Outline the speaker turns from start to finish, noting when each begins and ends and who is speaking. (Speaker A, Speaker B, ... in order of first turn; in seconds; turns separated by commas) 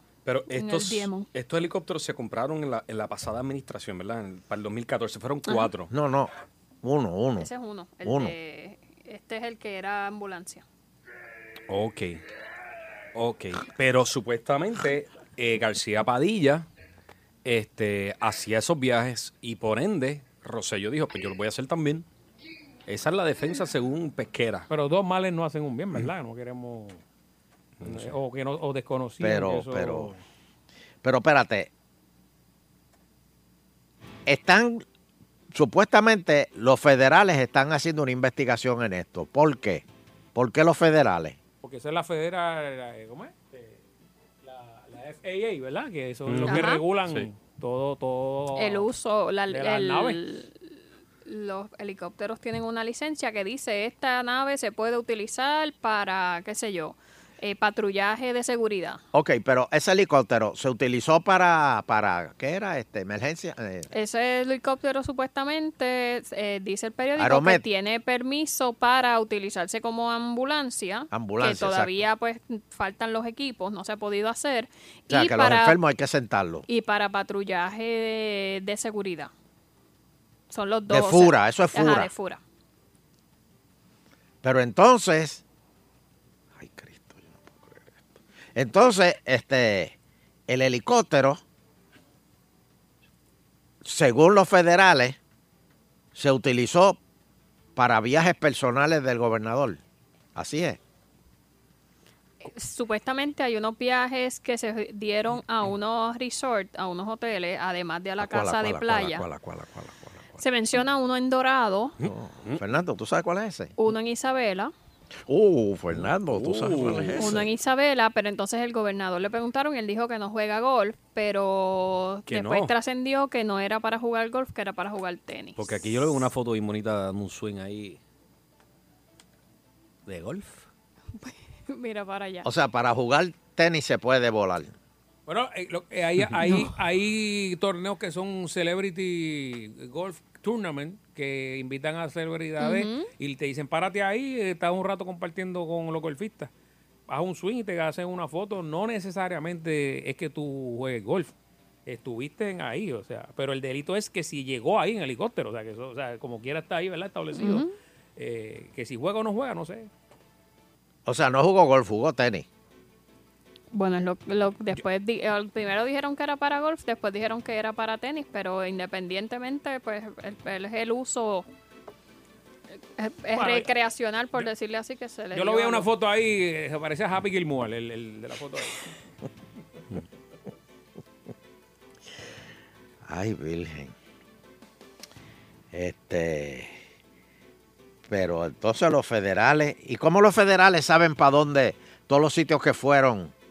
Speaker A: 0.2-5.9, Speaker B: 0.5-1.3, Speaker B: 5.5-5.7, Speaker C: 5.9-6.3, Speaker C: 6.8-7.5, Speaker B: 7.4-10.6, Speaker C: 8.0-8.3, Speaker A: 11.7-12.2, Speaker A: 13.1-16.7, Speaker A: 17.4-22.1, Speaker A: 22.9-24.7, Speaker D: 24.7-27.0, Speaker A: 27.8-28.1, Speaker D: 27.8-30.2, Speaker C: 29.2-30.1, Speaker C: 31.0-31.7, Speaker C: 34.2-34.8, Speaker C: 35.5-39.8, Speaker C: 40.3-41.4, Speaker D: 41.6-43.8, Speaker D: 44.4-48.9, Speaker A: 46.2-47.3, Speaker B: 46.4-46.8, Speaker B: 48.5-59.0, Speaker D: 49.5-50.2, Speaker C: 59.1-63.9, Speaker B: 63.9-75.8, Speaker C: 67.2-67.6, Speaker C: 71.1-72.1, Speaker C: 75.1-76.7, Speaker B: 76.7-79.3, Speaker B: 80.5-82.4, Speaker C: 80.9-82.1, Speaker C: 84.4-85.4, Speaker C: 86.5-88.0, Speaker C: 88.5-89.9, Speaker C: 90.5-91.4, Speaker C: 93.8-95.2, Speaker C: 96.1-97.0, Speaker C: 97.8-99.8, Speaker C: 100.3-100.8, Speaker B: 102.4-109.2, Speaker C: 108.2-110.4, Speaker B: 110.4-112.0, Speaker A: 112.0-112.6, Speaker C: 112.0-113.7, Speaker B: 113.8-114.7, Speaker C: 115.3-117.5, Speaker A: 115.9-117.4, Speaker B: 117.2-125.6, Speaker A: 122.3-122.7, Speaker A: 125.5-128.0, Speaker A: 130.1-130.6, Speaker B: 131.2-132.5, Speaker C: 132.4-134.7, Speaker D: 135.3-146.5, Speaker B: 142.6-143.1, Speaker D: 147.1-151.3, Speaker D: 151.8-159.9, Speaker B: 157.3-157.7, Speaker C: 161.1-162.4, Speaker B: 163.7-171.5, Speaker B: 173.0-175.9, Speaker D: 173.3-173.7, Speaker D: 175.3-179.0, Speaker C: 183.0-183.9, Speaker C: 185.7-186.8, Speaker C: 188.1-193.3